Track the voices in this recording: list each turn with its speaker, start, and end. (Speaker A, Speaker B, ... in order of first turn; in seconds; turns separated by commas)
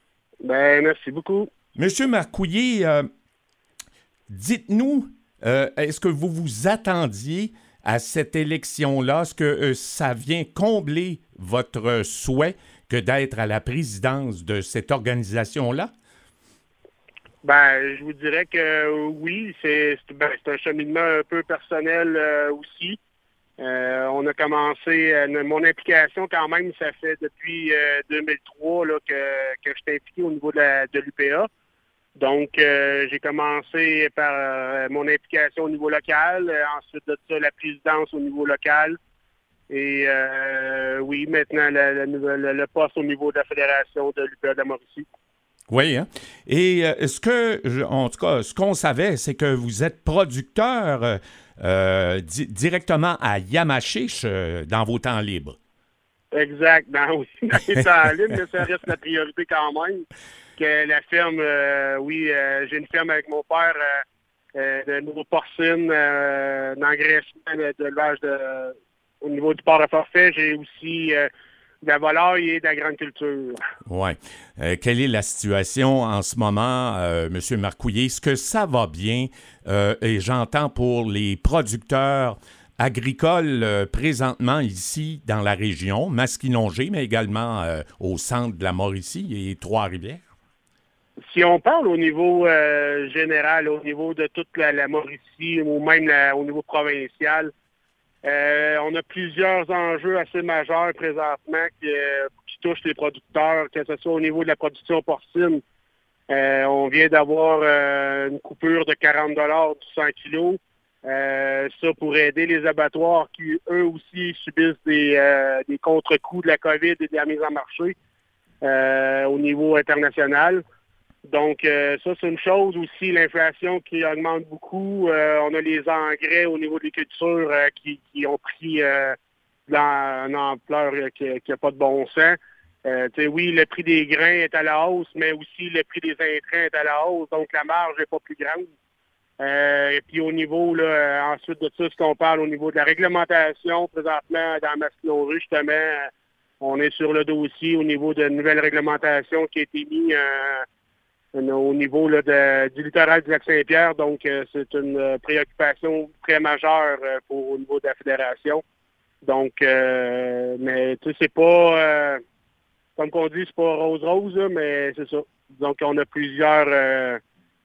Speaker A: 0.4-1.5, Speaker B: 1.8-3.1, Speaker B: 4.3-15.9, Speaker A: 17.4-23.0, Speaker A: 23.6-31.5, Speaker A: 32.2-39.0, Speaker A: 39.7-45.1, Speaker B: 45.7-55.6, Speaker A: 56.3-60.0, Speaker A: 60.6-64.0, Speaker A: 64.5-71.3, Speaker A: 71.8-73.6, Speaker B: 73.9-90.2, Speaker A: 91.3-97.5, Speaker A: 98.2-105.6, Speaker A: 106.3-118.0, Speaker A: 118.6-120.6, Speaker A: 121.2-129.2, Speaker A: 129.7-138.7, Speaker A: 139.4-150.7, Speaker A: 151.3-158.6, Speaker A: 159.2-162.2, Speaker A: 163.0-167.2